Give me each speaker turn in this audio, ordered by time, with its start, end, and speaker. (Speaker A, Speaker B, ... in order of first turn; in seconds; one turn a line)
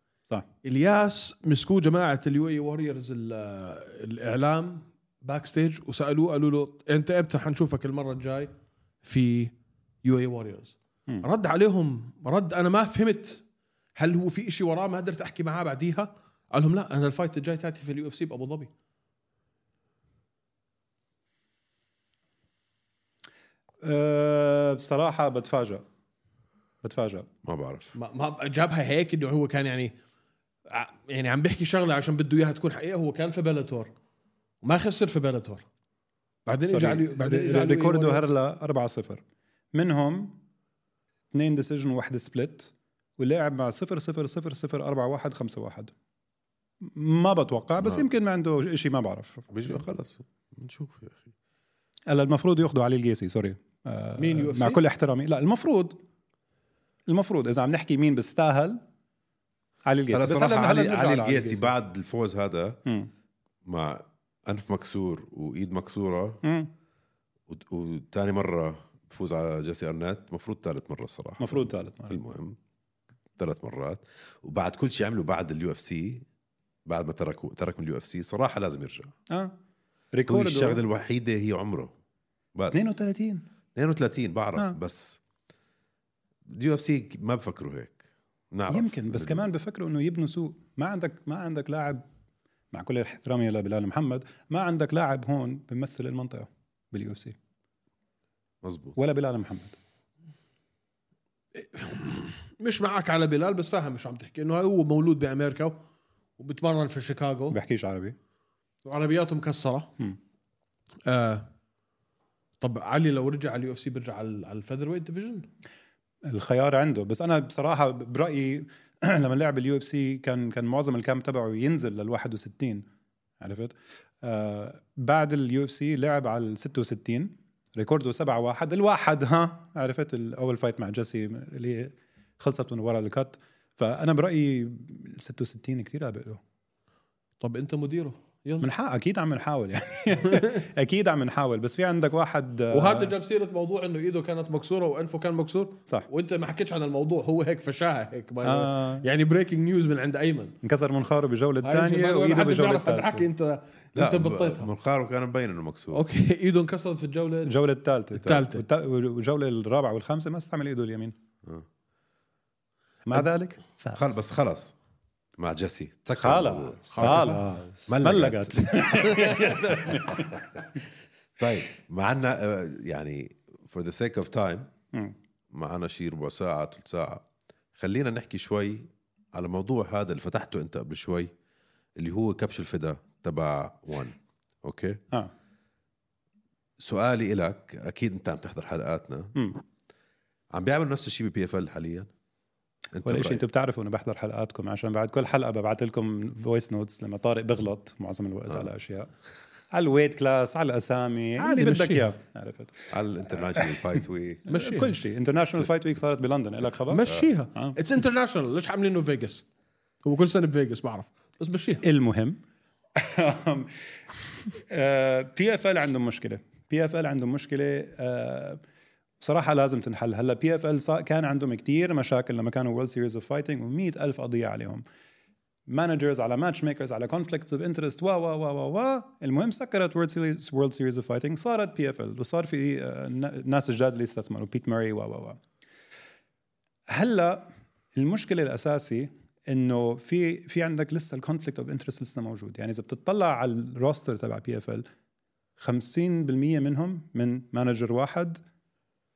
Speaker A: 0.6-8.5
Speaker A: 9.0-13.4
Speaker A: 13.9-18.7
Speaker B: 23.8-25.8
Speaker B: 26.8-27.3
Speaker C: 27.4-27.9
Speaker A: 27.9-29.9
Speaker A: 30.7-33.9
Speaker A: 34.6-35.6
Speaker A: 36.5-38.3
Speaker B: 36.6-39.2
Speaker B: 39.7-40.4
Speaker B: 41.3-45.9
Speaker B: 46.8-49.8
Speaker C: 47.8-48.1
Speaker C: 49.5-51.3
Speaker B: 52.1-56.0
Speaker A: 54.2-54.8
Speaker B: 57.1-58.8
Speaker B: 59.9-61.7
Speaker C: 60.1-62.8
Speaker C: 63.6-66.4
Speaker B: 66.4-66.7
Speaker C: 67.5-72.6
Speaker B: 71.4-72.2
Speaker C: 73.4-76.2
Speaker C: 76.8-79.1
Speaker B: 80.1-80.8
Speaker C: 80.3-81.9
Speaker C: 82.5-83.0
Speaker B: 82.7-83.4
Speaker C: 83.7-85.2
Speaker C: 86.5-89.5
Speaker B: 88.7-92.0
Speaker B: 92.7-97.3
Speaker C: 98.6-99.0
Speaker B: 99.0-99.7
Speaker A: 101.5-105.8
Speaker A: 106.4-107.6
Speaker B: 107.5-108.2
Speaker A: 108.8-109.9
Speaker A: 111.0-111.5
Speaker A: 112.6-115.5
Speaker B: 116.2-122.8
Speaker B: 123.4-136.4
Speaker A: 137.4-138.7
Speaker B: 138.6-143.1
Speaker A: 142.7-150.5
Speaker B: 148.4-149.0
Speaker B: 150.6-153.3
Speaker A: 151.6-154.7
Speaker C: 153.9-156.0
Speaker A: 155.9-157.5
Speaker B: 157.4-161.1
Speaker A: 158.2-158.6
Speaker B: 163.1-164.2
Speaker C: 163.9-164.7
Speaker C: 165.4-170.4
Speaker B: 166.2-170.4
Speaker A: 166.9-167.5
Speaker C: 171.4-174.7
Speaker C: 175.5-177.2
Speaker C: 177.8-181.3
Speaker C: 182.0-185.0
Speaker C: 186.8-189.3
Speaker B: 189.3-189.6
Speaker C: 190.5-192.1
Speaker C: 192.9-193.4
Speaker B: 193.0-199.1
Speaker B: 199.7-202.9
Speaker A: 201.4-202.1
Speaker C: 202.9-204.5
Speaker B: 203.5-207.8
Speaker A: 204.5-204.9
Speaker A: 206.9-209.4
Speaker A: 210.0-211.8
Speaker B: 211.8-212.4
Speaker B: 212.9-213.8
Speaker B: 214.5-218.6
Speaker B: 219.2-224.8
Speaker B: 225.7-235.4
Speaker B: 236.9-244.8
Speaker B: 245.6-248.4